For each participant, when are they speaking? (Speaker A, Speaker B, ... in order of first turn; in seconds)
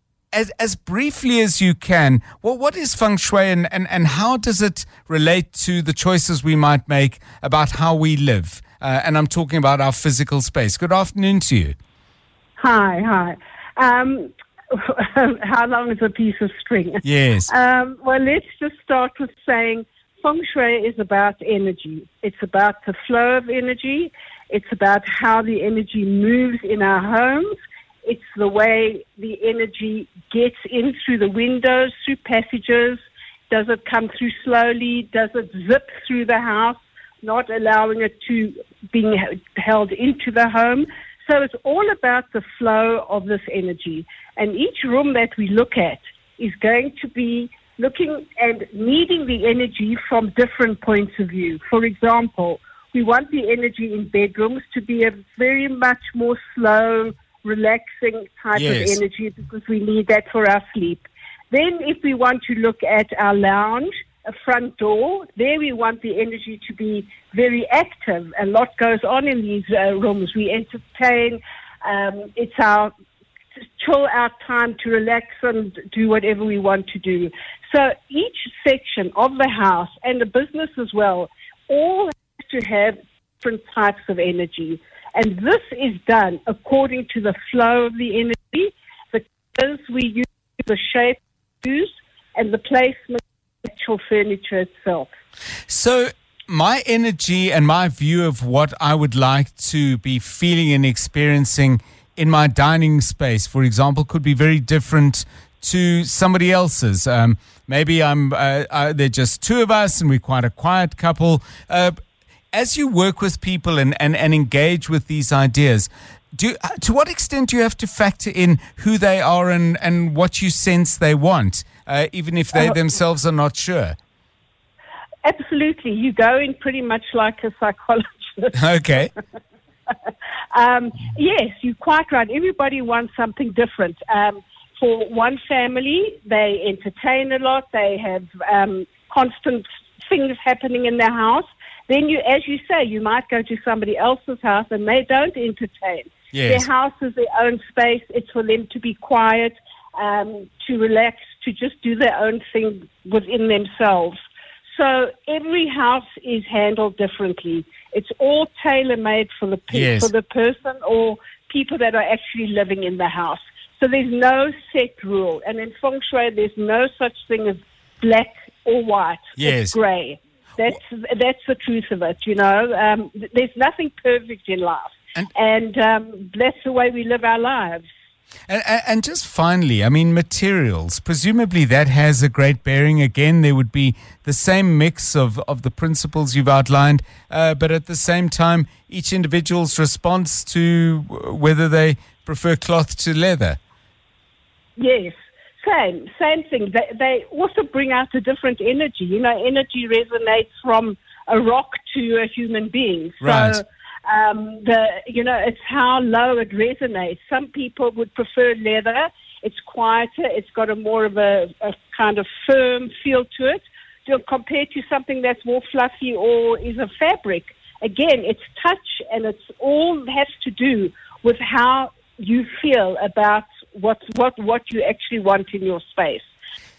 Speaker A: 0.3-11.8, 17.0-17.5, 58.5-59.0, 95.7-112.0, 112.5-124.0, 128.5-129.1, 146.3-146.7, 159.7-160.1, 169.4-169.8, 178.5-193.6, 203.2-203.6
Speaker B: 12.6-72.9, 73.8-95.1, 125.2-128.6, 130.5-154.2, 154.7-177.8, 194.8-226.3